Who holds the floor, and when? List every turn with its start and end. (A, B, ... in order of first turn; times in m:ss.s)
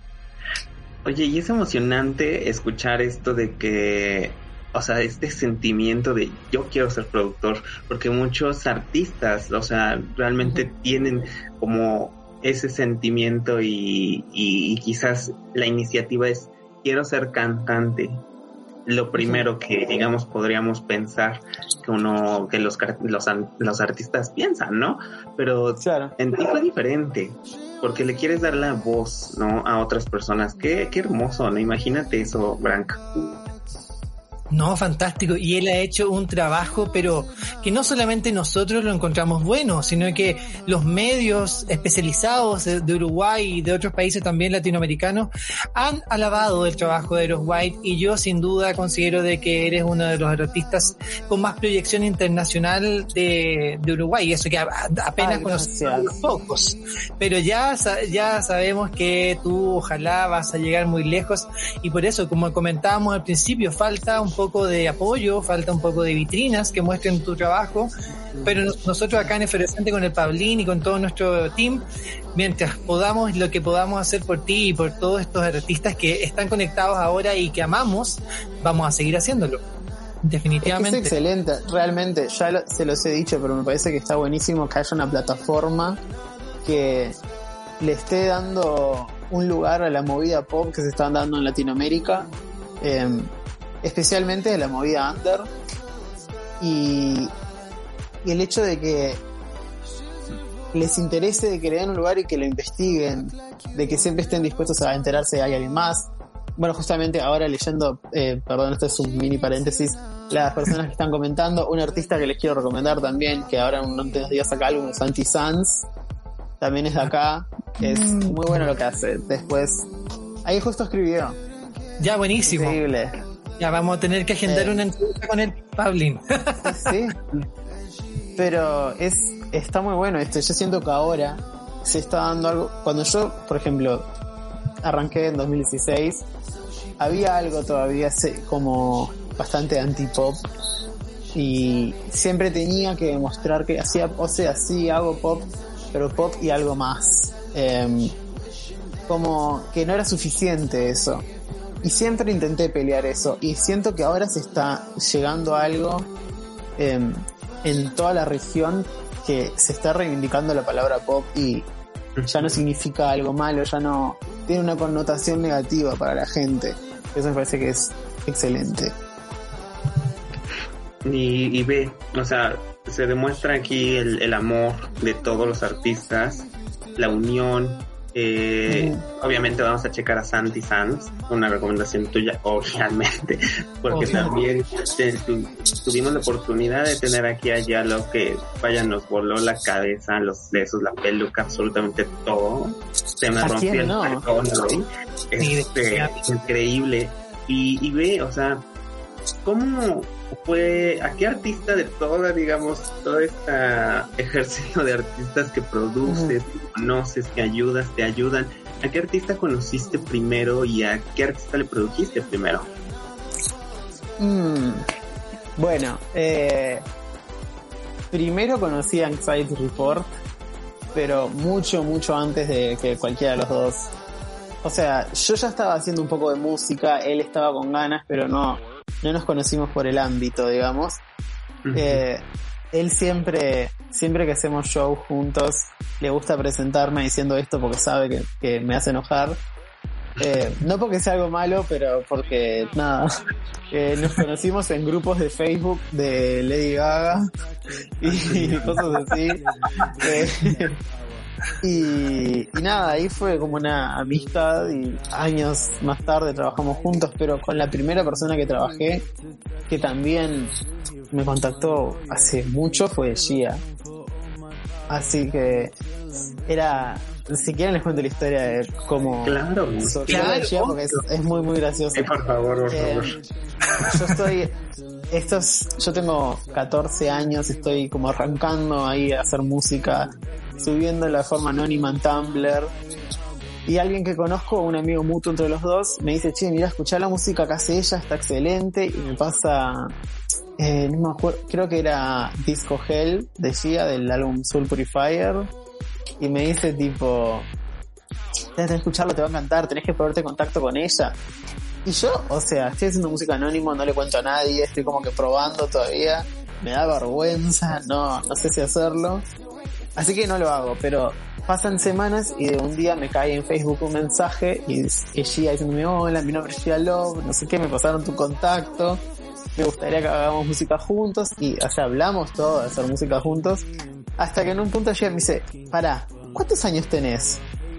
0:01.0-0:18.2 A
0:18.9-0:33.4 A
0:19.2-0:19.4 B
0:25.8-0:26.1 B
0:34.5-1:07.9 C
0:55.2-0:56.2 B
1:08.5-1:11.8 C
1:12.4-1:19.6 C
1:20.2-1:21.1 C
1:20.6-1:26.0 B
1:26.6-1:27.2 B
1:27.8-1:32.3 B
1:32.8-1:33.3 B
1:33.8-1:35.5 B
1:36.6-1:37.3 B
1:38.2-1:39.2 B
1:40.7-1:55.9 B
1:56.6-1:59.9 B
1:57.8-1:58.7 C
2:00.4-2:01.4 B
2:02.0-2:02.8 C
2:02.4-2:03.1 B
2:03.6-2:06.9 C
2:04.4-2:04.8 B
2:06.6-2:07.4 B
2:08.4-2:14.1 B
2:14.8-2:16.3 B
2:17.0-2:20.4 B
2:21.3-2:28.2 B
2:29.1-2:31.3 B
2:31.8-2:36.1 B
2:36.8-2:41.7 B
2:42.2-2:42.6 A
2:42.3-2:49.0 B
2:51.0-3:18.6 A
2:58.7-2:59.0 B
3:03.9-3:04.3 C
3:04.0-3:04.3 B
3:13.4-3:14.3 B
3:15.4-3:16.3 C
3:19.4-3:32.7 A
3:26.0-3:26.4 B
3:34.2-3:34.9 B
3:35.6-3:36.8 B
3:38.1-3:40.1 B
3:40.9-3:43.9 B
3:44.6-3:51.0 B
3:51.6-3:52.0 A
3:51.7-3:59.4 B
4:00.2-4:03.1 B
4:03.7-4:07.3 B
4:08.0-4:09.4 B
4:08.1-4:08.8 A
4:10.0-4:10.8 B
4:11.6-4:19.1 B
4:19.7-4:20.5 B
4:21.1-4:23.6 B
4:24.9-4:25.7 B
4:26.5-4:32.2 B
4:29.2-4:31.0 A
4:30.1-4:30.8 C
4:32.0-4:33.2 A
4:32.7-4:33.2 B
4:33.9-4:34.5 B
4:35.1-4:42.7 B
4:43.7-4:49.9 B
4:50.6-4:55.5 B
4:56.2-4:57.5 B
4:58.6-5:01.2 B
5:01.8-5:09.2 B
5:10.0-5:19.0 B
5:19.6-5:23.6 B
5:24.2-5:27.4 B